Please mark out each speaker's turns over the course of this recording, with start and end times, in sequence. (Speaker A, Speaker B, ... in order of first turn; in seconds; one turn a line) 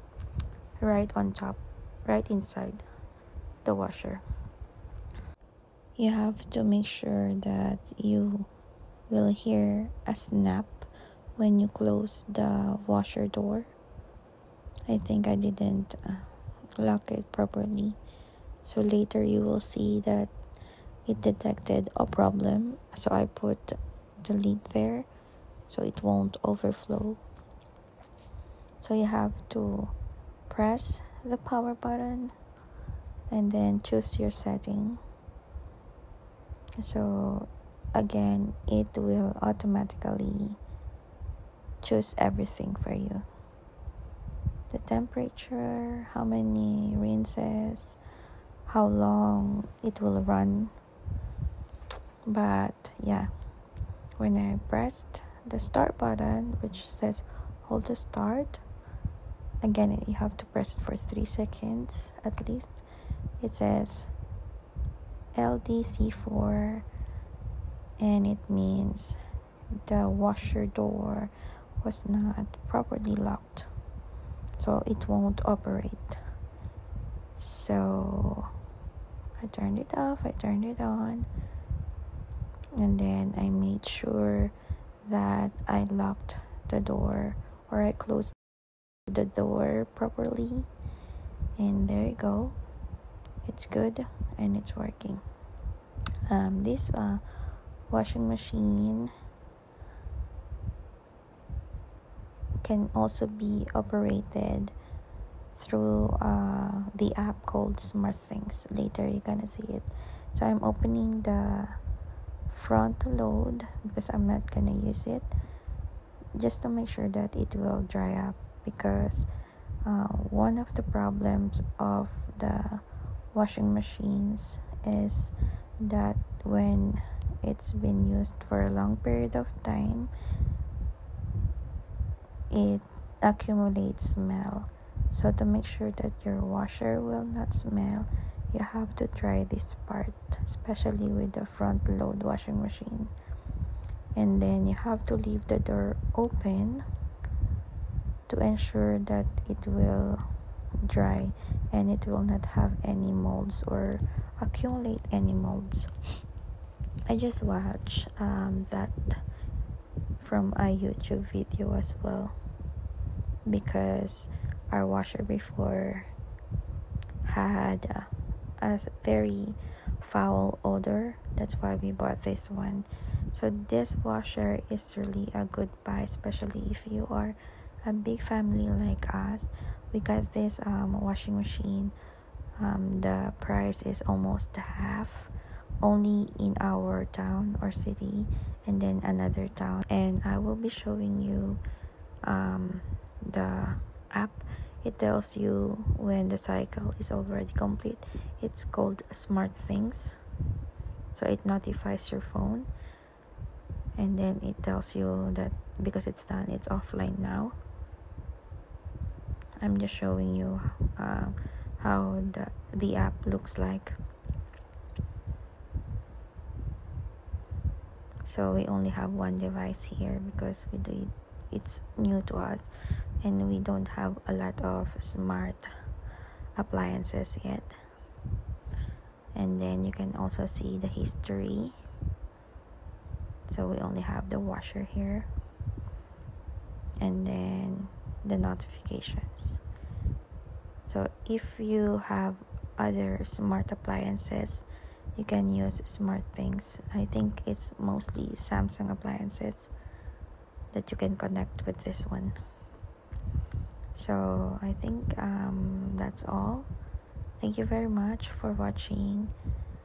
Speaker A: 0.8-2.8
Speaker A: 3.6-4.2
Speaker A: 6.0-8.5
Speaker A: 9.1-13.7
Speaker A: 14.9-18.0
Speaker A: 18.6-20.3
Speaker A: 21.1-25.1
Speaker A: 25.6-27.2
Speaker A: 28.8-29.9
Speaker A: 30.5-32.3
Speaker A: 33.3-35.0
Speaker A: 36.8-40.6
Speaker A: 41.8-43.2
Speaker A: 44.7-48.0
Speaker A: 48.6-50.7
Speaker A: 52.3-53.3
Speaker A: 54.2-58.6
Speaker A: 59.6-62.8
Speaker A: 63.4-64.1
Speaker A: 65.4-66.9
Speaker A: 68.0-69.2
Speaker A: 69.8-73.7
Speaker A: 74.6-76.2
Speaker A: 77.4-78.5
Speaker A: 79.4-81.3
Speaker A: 82.8-84.5
Speaker A: 85.0-88.4
Speaker A: 89.1-90.7
Speaker A: 91.6-92.6
Speaker A: 93.4-95.2
Speaker A: 96.3-97.2
Speaker A: 97.9-99.1
Speaker A: 102.6-104.7
Speaker A: 105.5-111.8
Speaker A: 112.5-115.3
Speaker A: 116.4-119.3
Speaker A: 119.9-130.1
Speaker A: 132.5-143.1
Speaker A: 144.2-146.8
Speaker A: 148.3-150.2
Speaker A: 150.8-155.9
Speaker A: 157.1-159.2
Speaker A: 160.2-162.3
Speaker A: 163.5-166.1
Speaker A: 167.2-181.9
Speaker A: 182.6-185.3
Speaker A: 185.8-191.6
Speaker A: 192.2-200.2
Speaker A: 201.1-202.7
Speaker A: 204.0-207.6
Speaker A: 209.6-214.0
Speaker A: 218.2-225.7
Speaker A: 226.6-227.8
Speaker A: 229.3-231.8
Speaker A: 233.5-235.3
Speaker A: 237.0-239.6
Speaker A: 240.8-249.7
Speaker A: 250.7-252.3
Speaker A: 253.9-256.7
Speaker A: 257.4-259.3